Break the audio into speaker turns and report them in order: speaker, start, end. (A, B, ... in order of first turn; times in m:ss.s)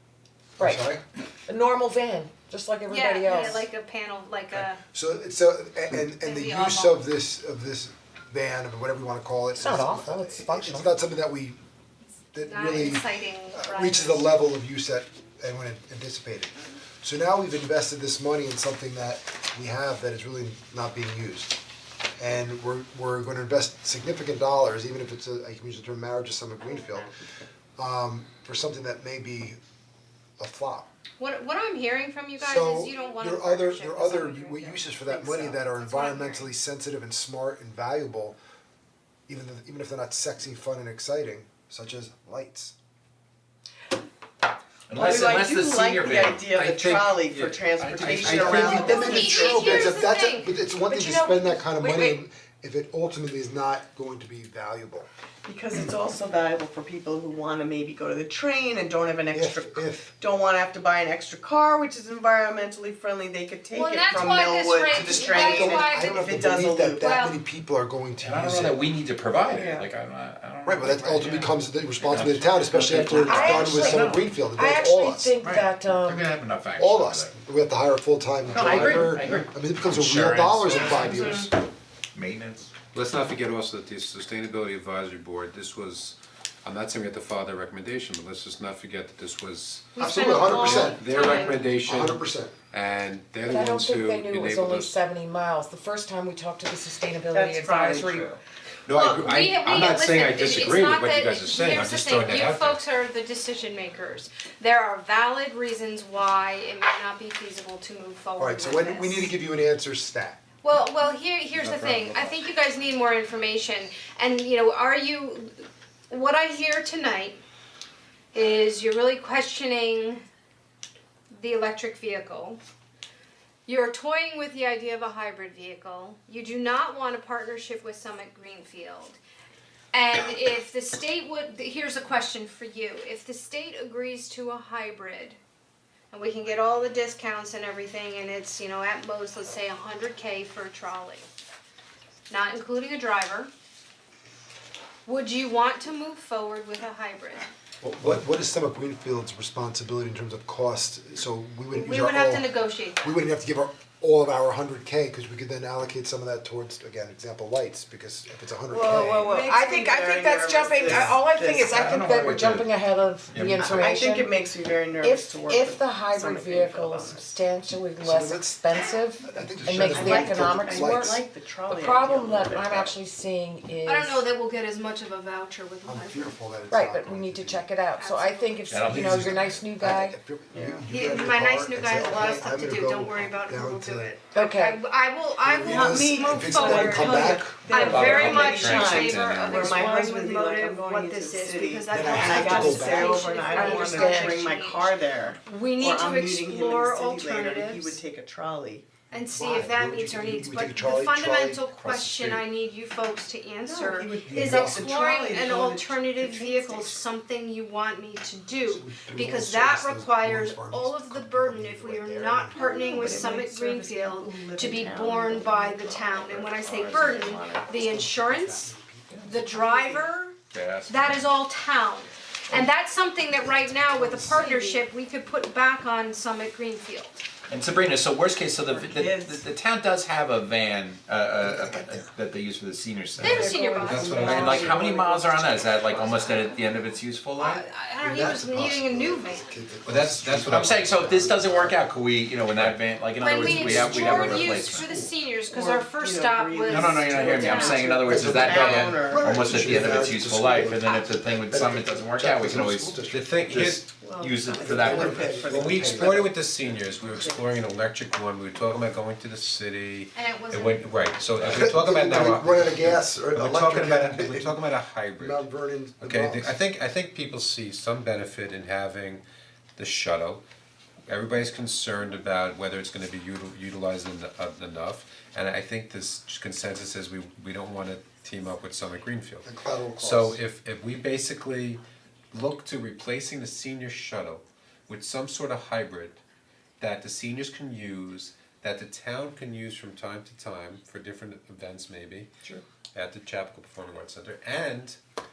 0:00.6-0:00.9 A
0:00.6-0:01.0 B
0:01.5-0:03.7 A
0:02.9-0:04.8 C
0:04.8-0:11.6 B
0:06.2-0:07.0 C
0:09.6-0:10.9 A
0:12.3-0:21.6 B
0:12.4-0:14.2 C
0:22.2-0:27.1 B
0:27.8-0:29.6 B
0:30.4-0:30.9 B
0:31.2-0:36.5 C
0:32.4-0:38.4 B
0:39.3-0:42.7 B
0:44.9-0:49.1 D
0:44.9-0:49.9 E
0:48.0-0:55.1 B
0:48.2-0:48.6 F
0:48.5-0:50.5 C
0:50.9-0:51.8 A
0:55.4-1:07.1 E
0:59.3-1:00.1 B
1:03.7-1:06.3 C
1:04.9-1:08.8 B
1:07.0-1:07.4 C
1:08.2-1:14.3 D
1:09.5-1:09.9 E
1:10.6-1:15.4 B
1:13.1-1:16.3 A
1:15.4-1:17.4 D
1:16.8-1:21.5 B
1:18.5-1:21.5 D
1:18.5-1:19.1 F
1:22.1-1:22.8 D
1:22.9-1:35.0 F
1:30.0-1:31.6 C
1:30.0-1:32.5 B
1:33.4-1:38.4 A
1:37.3-1:38.4 E
1:38.9-1:42.8 F
1:38.9-1:49.3 C
1:48.4-1:50.4 B
1:50.6-1:57.4 C
1:51.6-1:52.3 F
1:58.3-2:00.2 C
2:01.3-2:02.6 C
2:03.7-2:09.2 C
2:09.9-2:15.4 C
2:16.1-2:21.3 C
2:22.3-2:23.5 C
2:25.0-2:27.5 C
2:27.8-2:39.3 B
2:31.7-2:33.2 C
2:38.7-2:42.2 E
2:38.9-2:44.4 A
2:39.3-2:39.6 C
2:40.9-2:41.2 D
2:41.7-2:42.7 D
2:43.3-2:44.0 D
2:43.5-2:47.4 E
2:44.9-2:54.2 A
2:48.0-2:48.6 B
2:49.2-2:51.2 B
2:49.8-2:52.9 E
2:53.8-2:56.3 C
2:55.8-2:57.7 B
2:56.7-3:00.2 A
2:58.0-2:58.6 C
2:58.7-2:59.6 D
2:58.8-3:04.1 B
3:00.5-3:00.9 E
3:00.8-3:14.9 C
3:04.3-3:04.8 A
3:05.4-3:07.7 B
3:05.6-3:18.9 E
3:07.7-3:09.8 F
3:11.9-3:13.2 B
3:13.4-3:14.4 A
3:15.4-3:18.0 C
3:19.1-3:40.4 C
3:19.3-3:22.4 B
3:23.6-3:27.0 E
3:24.0-3:24.9 B
3:28.6-3:32.8 B
3:32.5-3:37.7 E
3:37.7-3:39.3 B
3:39.3-3:40.0 E
3:40.5-3:41.2 D
3:40.9-3:47.2 C
3:44.0-3:44.8 E
3:44.0-3:44.4 B
3:47.5-3:53.5 D
3:48.7-3:49.4 E
3:51.4-3:52.0 B
3:53.2-3:54.8 C
3:53.2-3:56.5 E
3:53.8-3:54.8 F
3:53.9-3:54.2 B
3:54.2-3:57.6 D
3:57.4-3:59.5 C
3:58.0-4:01.8 B
3:59.8-4:01.2 F
4:00.4-4:04.8 D
4:03.2-4:07.9 C
4:03.3-4:05.1 B
4:05.5-4:09.3 E
4:06.7-4:15.6 D
4:08.0-4:13.8 B
4:10.8-4:11.1 C
4:13.1-4:13.8 F
4:13.9-4:16.4 E
4:14.6-4:16.2 B
4:14.9-4:25.4 F
4:17.1-4:17.4 E
4:20.1-4:20.9 C
4:21.4-4:21.7 D
4:21.4-4:24.6 B
4:25.2-4:26.6 B
4:26.0-4:29.2 F
4:29.8-4:30.4 F
4:31.1-4:39.5 F
4:39.4-4:40.4 B
4:40.0-4:41.8 F
4:42.3-4:46.2 F
4:46.8-4:52.3 F
4:52.9-4:55.0 F